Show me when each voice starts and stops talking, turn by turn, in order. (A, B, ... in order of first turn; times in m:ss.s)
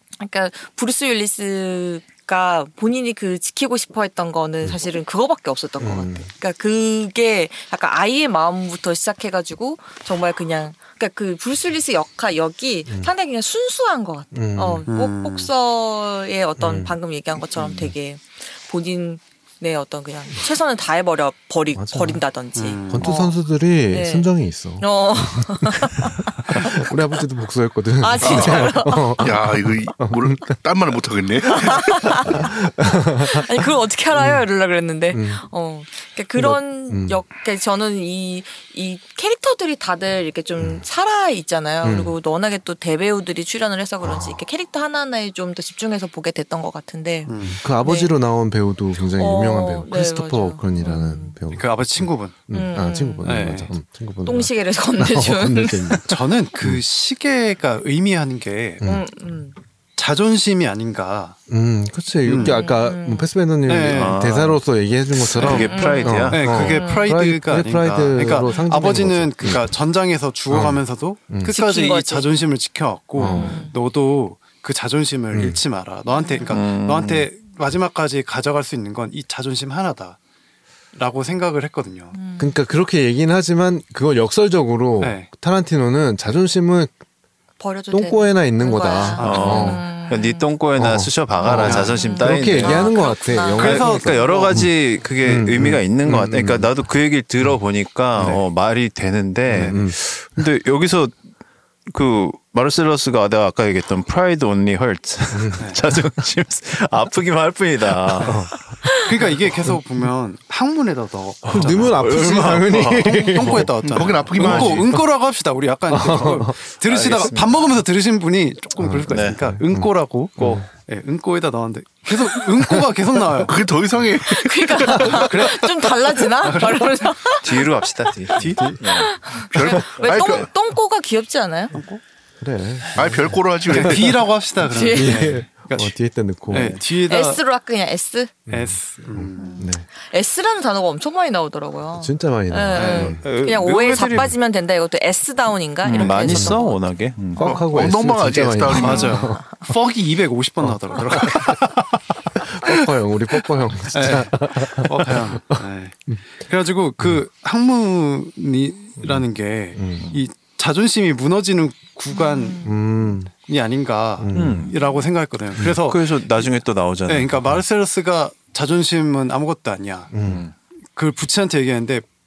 0:00.2-0:23.4 A
0:05.8-0:06.3 B
0:14.3-0:14.8 B
0:14.8-0:15.5 C
0:16.6-0:17.0 B
0:21.7-0:22.2 B
0:22.5-0:23.1 C
0:22.9-0:30.6 B
0:23.9-0:26.8 A
0:28.0-0:29.3 A
0:28.2-0:32.3 D
0:31.5-0:32.5 A
0:32.3-0:33.4 B
0:33.2-0:48.1 A
0:34.1-0:34.4 B
0:35.1-0:35.4 B
0:36.4-0:37.2 B
0:40.6-0:40.8 B
0:41.8-0:42.1 B
0:44.0-0:44.4 B
0:47.2-0:47.6 C
0:47.4-0:56.8 B
0:49.2-0:51.4 A
0:51.5-0:52.5 C
0:52.5-0:53.4 A
0:53.2-0:53.7 C
0:54.2-0:56.0 A
0:56.1-0:58.8 C
0:58.8-0:59.6 A
1:00.0-1:01.4 C
1:01.5-1:09.7 B
1:02.2-1:02.6 C
1:02.4-1:03.3 A
1:03.6-1:04.2 C
1:03.9-1:04.6 E
1:05.2-1:06.6 E
1:05.5-1:07.1 A
1:06.3-1:20.2 C
1:10.5-1:11.5 B
1:11.4-1:12.3 A
1:13.2-1:13.6 B
1:13.3-1:13.7 A
1:15.3-1:15.6 B
1:16.1-1:16.6 A
1:16.5-1:17.2 E
1:20.9-1:22.2 C
1:22.1-1:22.6 A
1:22.4-1:26.9 B
1:25.0-1:25.3 C
1:27.6-1:30.5 A
1:27.9-1:29.8 B
1:29.2-1:29.8 C
1:29.2-1:32.9 E
1:30.8-1:34.7 B
1:31.4-1:34.4 A
1:31.4-1:32.1 C
1:33.5-1:34.6 C
1:33.6-1:41.2 E
1:35.2-1:36.7 B
1:38.2-1:38.4 C
1:39.5-1:40.0 B
1:39.5-1:39.8 C
1:41.9-1:48.5 E
1:45.3-1:45.6 B
1:48.2-1:52.1 C
1:48.2-1:48.7 B
1:51.4-1:53.6 E
1:51.5-1:55.0 B
1:52.9-2:03.6 C
1:53.8-1:55.0 D
1:55.9-1:56.6 B
1:56.8-1:57.6 E
1:58.8-2:00.6 B
1:59.1-1:59.4 E
2:03.4-2:05.3 D
2:04.2-2:07.6 A
2:05.0-2:06.9 C
2:07.4-2:09.2 E
2:08.4-2:08.8 C
2:08.4-2:08.8 B
2:08.9-2:11.7 A
2:09.5-2:10.5 D
2:11.7-2:12.0 C
2:12.4-2:13.8 B
2:13.0-2:14.2 D
2:13.7-2:15.9 C
2:14.6-2:15.3 A
2:14.9-2:16.8 B
2:16.5-2:17.4 C
2:16.9-2:18.3 A
2:18.5-2:19.8 B
2:18.5-2:19.6 C
2:19.4-2:26.8 A
2:21.9-2:23.2 B
2:22.7-2:23.2 C
2:23.2-2:24.3 E
2:25.8-2:27.5 E
2:26.2-2:26.6 B
2:27.3-2:29.6 B
2:27.4-2:29.3 D
2:28.8-2:32.0 C
2:29.0-2:29.4 A
2:30.6-2:31.5 B
2:32.5-2:36.2 B
2:33.9-2:42.7 C
2:39.0-2:39.2 B
2:39.8-2:40.1 B
2:42.1-2:42.7 A
2:42.6-2:43.3 B
2:43.3-2:46.5 C
2:44.2-2:44.7 B
2:44.3-2:44.7 E
2:44.8-2:45.0 A
2:45.8-2:47.4 E
2:47.0-2:50.1 C
2:50.1-2:50.4 B
2:50.2-2:50.5 E
2:50.9-2:52.0 C